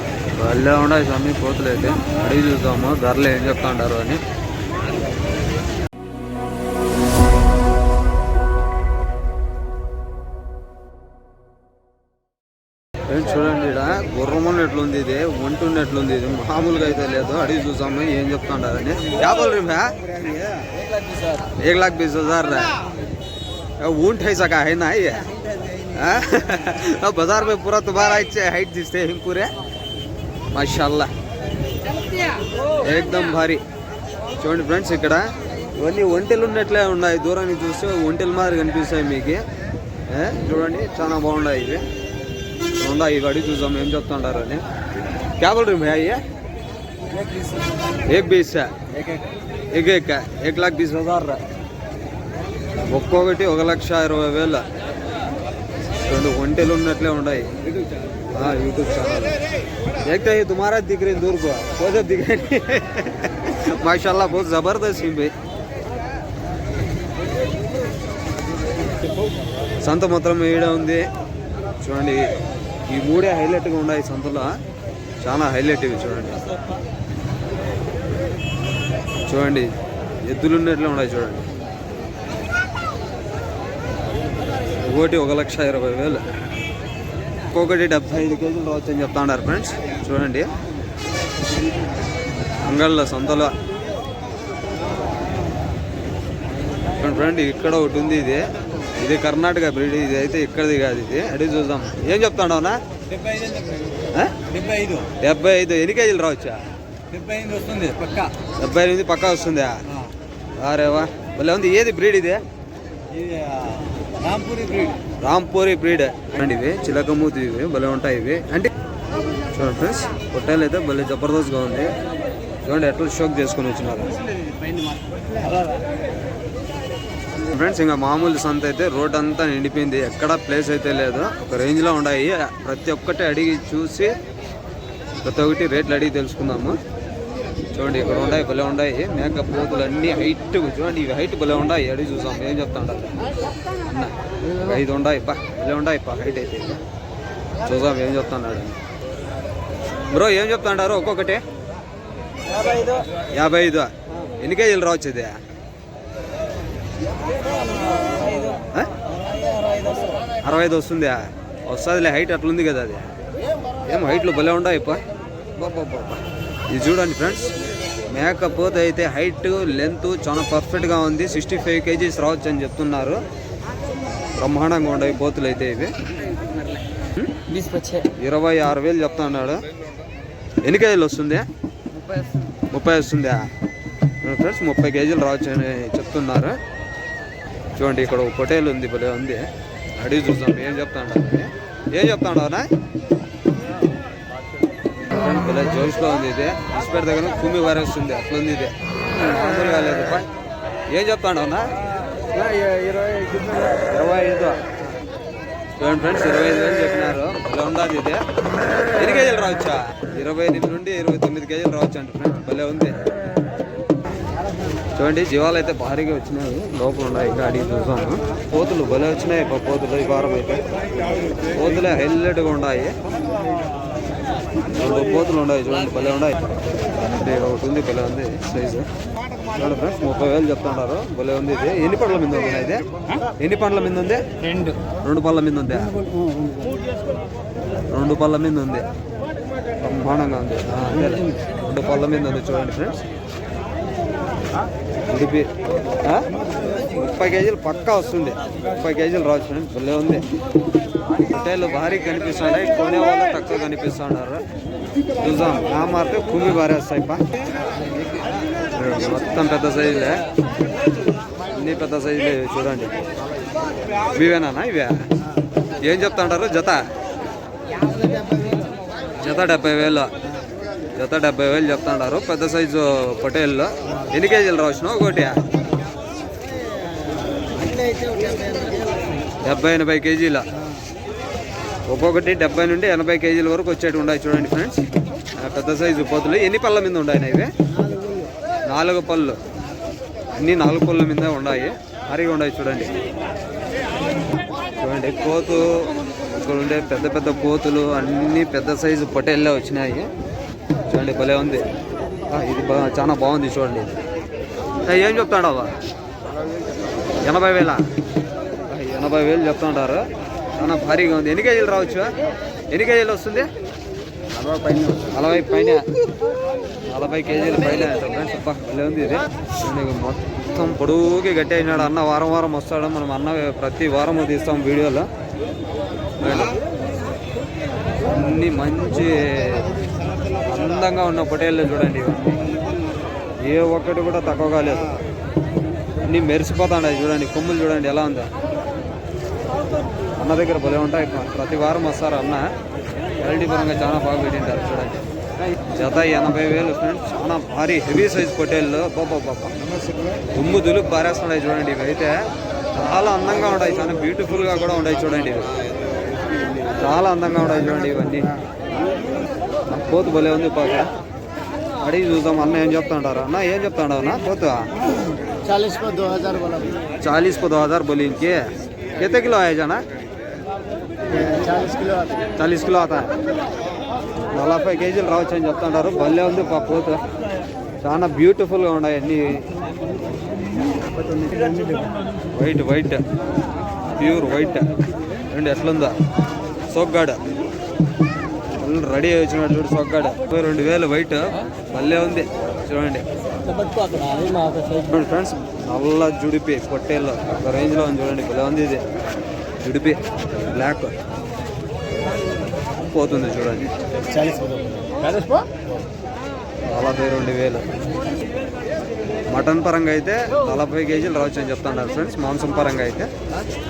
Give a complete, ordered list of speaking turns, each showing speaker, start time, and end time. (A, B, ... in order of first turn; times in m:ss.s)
0:00.3-0:04.2 A
0:13.1-0:20.0 A
0:21.4-0:22.8 A
0:23.8-0:29.5 A
0:30.5-0:31.1 A
0:32.8-0:33.6 A
0:34.4-0:39.4 A
0:40.1-0:41.8 A
0:42.7-0:44.6 A
0:45.4-0:46.2 A
0:48.0-0:49.0 A
0:49.7-0:51.4 A
0:52.8-0:54.6 A
0:56.0-0:57.6 A
0:58.3-0:59.4 A
1:00.0-1:05.3 A
1:09.8-1:11.1 A
1:11.8-1:12.3 A
1:12.9-1:14.6 A
1:15.2-1:16.4 A
1:19.2-1:19.7 A
1:20.2-1:21.5 A
1:24.8-1:26.2 A
1:27.5-1:30.5 A
1:32.6-1:33.6 A
1:36.9-1:42.8 A
1:43.2-1:43.7 B
1:44.1-1:44.5 A
1:44.5-1:45.1 B
1:45.1-1:46.7 A
1:47.1-1:48.3 B
1:48.4-1:49.8 A
1:50.6-1:52.4 A
1:53.1-1:55.0 B
1:55.2-1:58.7 A
1:59.5-2:01.9 A
2:02.6-2:04.1 A
2:07.4-2:14.2 A
2:15.2-2:16.8 A
2:17.7-2:23.2 A
2:23.8-2:26.8 A
2:27.6-2:28.8 A
2:30.1-2:31.4 A
2:33.2-2:35.4 A
2:38.5-2:38.9 A
2:40.4-2:43.1 A
2:43.8-2:45.0 A
2:45.6-2:47.5 A
2:48.1-2:53.2 A
2:54.4-2:56.0 A
2:57.2-2:57.5 A
2:57.5-2:58.1 B
2:58.2-2:59.6 A
3:00.6-3:01.5 A
3:02.7-3:03.5 A
3:04.2-3:06.6 A
3:07.8-3:12.7 A
3:15.1-3:20.3 A
3:20.9-3:21.7 A
3:22.4-3:23.5 B
3:23.8-3:24.6 A
3:25.8-3:28.2 A
3:29.0-3:33.1 A
3:35.0-3:40.6 A
3:41.5-3:43.0 A
3:44.7-3:48.9 A
3:49.5-3:52.9 A
3:53.4-3:54.2 A
3:54.4-3:54.8 B
3:54.9-3:56.0 A
3:56.1-3:56.7 B
3:57.9-3:58.9 A
3:59.8-4:03.0 A
4:05.1-4:05.5 A
4:06.0-4:06.3 A
4:06.9-4:10.3 A
4:11.2-4:14.4 A
4:15.2-4:17.2 A
4:18.7-4:20.3 A
4:21.5-4:23.0 A
4:24.1-4:25.1 A
4:25.8-4:26.9 A
4:29.2-4:30.1 A
4:30.9-4:35.4 A
4:37.6-4:38.9 B
4:39.4-4:40.5 A
4:41.9-4:47.5 A
4:48.7-4:49.4 A
4:50.3-4:52.9 A
4:54.8-5:00.1 A
5:00.9-5:01.7 A
5:02.3-5:04.0 A
5:04.9-5:05.8 A
5:07.2-5:07.8 A
5:08.7-5:12.1 A
5:12.7-5:13.5 A
5:14.5-5:14.9 B
5:15.0-5:15.8 A
5:16.9-5:25.1 A
5:26.2-5:26.6 A
5:28.1-5:29.7 A
5:30.4-5:32.4 A
5:33.4-5:34.9 A
5:36.0-5:38.3 A
5:40.2-5:42.5 A
5:43.2-5:45.0 A
5:45.7-5:49.6 A
5:50.3-5:55.6 A
5:56.7-5:58.4 A
5:59.7-6:00.9 A
6:01.8-6:04.7 A
6:05.4-6:06.7 B
6:07.0-6:09.8 A
6:11.2-6:12.1 B
6:12.4-6:13.1 A
6:14.3-6:17.0 A
6:17.8-6:19.5 A
6:21.2-6:21.8 B
6:22.3-6:23.0 A
6:23.9-6:24.7 A
6:25.3-6:26.0 A
6:26.7-6:27.2 A
6:28.6-6:33.1 A
6:33.5-6:34.8 B
6:34.8-6:38.9 A
6:39.6-6:41.0 A
6:42.8-6:43.7 A
6:44.1-6:45.5 B
6:46.7-6:47.8 A
6:49.3-6:53.1 A